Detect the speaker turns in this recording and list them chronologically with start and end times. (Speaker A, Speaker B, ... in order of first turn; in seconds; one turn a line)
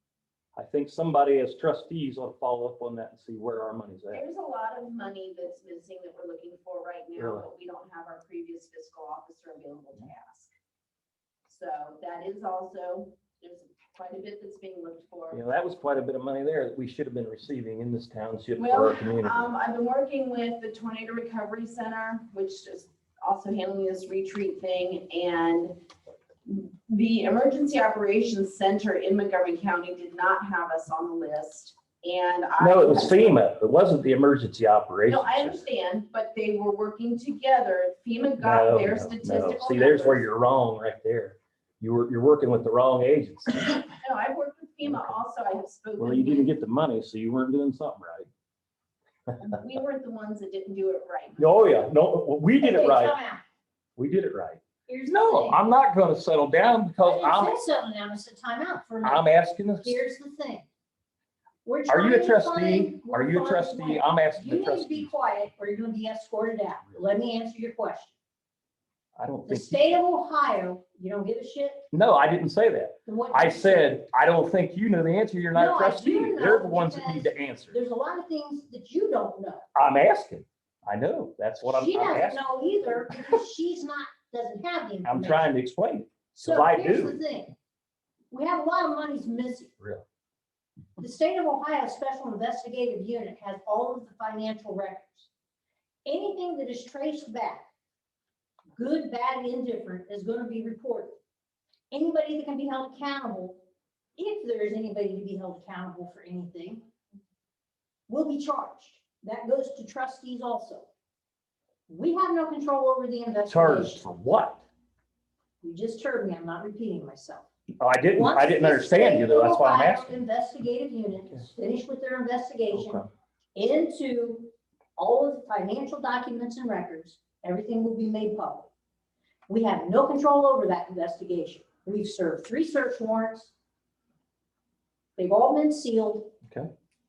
Speaker A: 0.5-4.2
Speaker B: 4.1-10.5
Speaker A: 7.2-7.5
Speaker B: 11.4-15.4
Speaker A: 15.3-19.5
Speaker B: 18.6-25.8
Speaker B: 26.4-33.5
Speaker A: 32.6-35.6
Speaker B: 35.1-40.2
Speaker A: 38.4-43.8
Speaker B: 44.0-46.5
Speaker A: 46.0-48.3
Speaker B: 49.4-51.9
Speaker A: 51.4-53.2
Speaker C: 52.6-53.4
Speaker A: 54.0-57.6
Speaker C: 54.9-55.6
Speaker C: 57.0-60.6
Speaker A: 59.0-60.0
Speaker C: 61.6-68.1
Speaker A: 61.9-65.1
Speaker A: 69.2-69.8
Speaker C: 69.5-71.8
Speaker A: 71.9-77.8
Speaker C: 73.0-73.9
Speaker C: 75.5-79.6
Speaker A: 79.7-82.5
Speaker C: 81.6-85.5
Speaker A: 85.0-87.2
Speaker C: 86.3-87.5
Speaker C: 88.3-89.7
Speaker C: 91.0-95.3
Speaker C: 96.0-97.7
Speaker C: 98.8-101.2
Speaker C: 101.9-103.6
Speaker C: 104.2-106.8
Speaker C: 108.1-110.9
Speaker C: 111.9-114.0
Speaker A: 113.5-114.6
Speaker C: 115.6-117.4
Speaker A: 117.8-120.2
Speaker C: 118.1-123.0
Speaker A: 122.7-123.1
Speaker C: 123.5-128.7
Speaker C: 129.5-133.5
Speaker C: 135.2-136.3